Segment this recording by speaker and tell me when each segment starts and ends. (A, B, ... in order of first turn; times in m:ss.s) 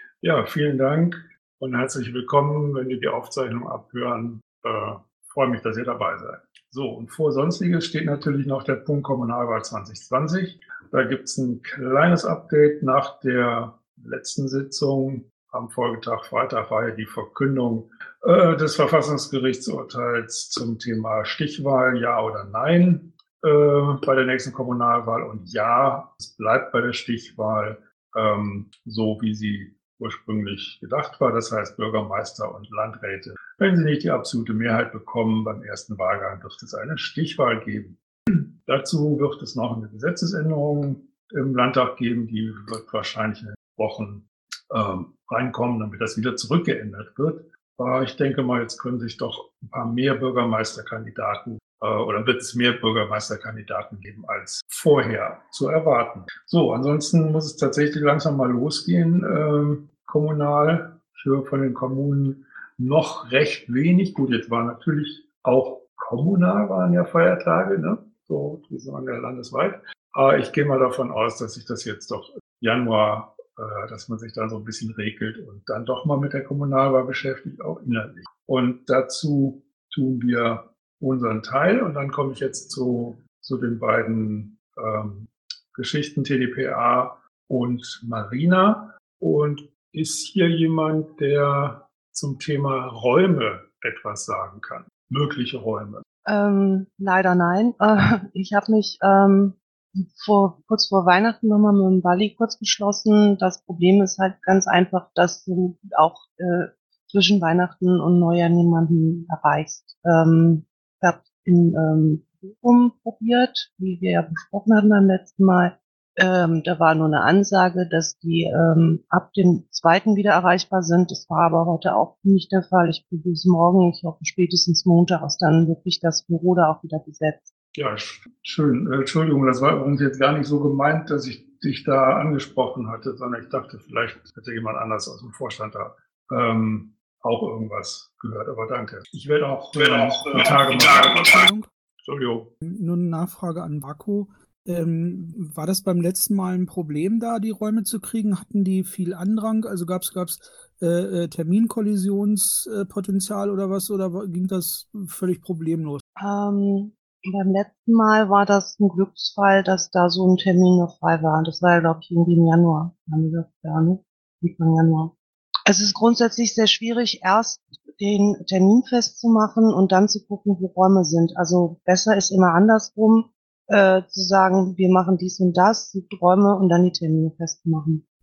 0:00.2-1:36.0 A
1:36.3-2:07.5 B
2:07.8-2:21.4 A
2:20.4-2:21.7 C
2:22.0-2:22.5 A
2:22.6-2:36.0 C
2:36.2-2:45.1 B
2:45.7-2:58.0 B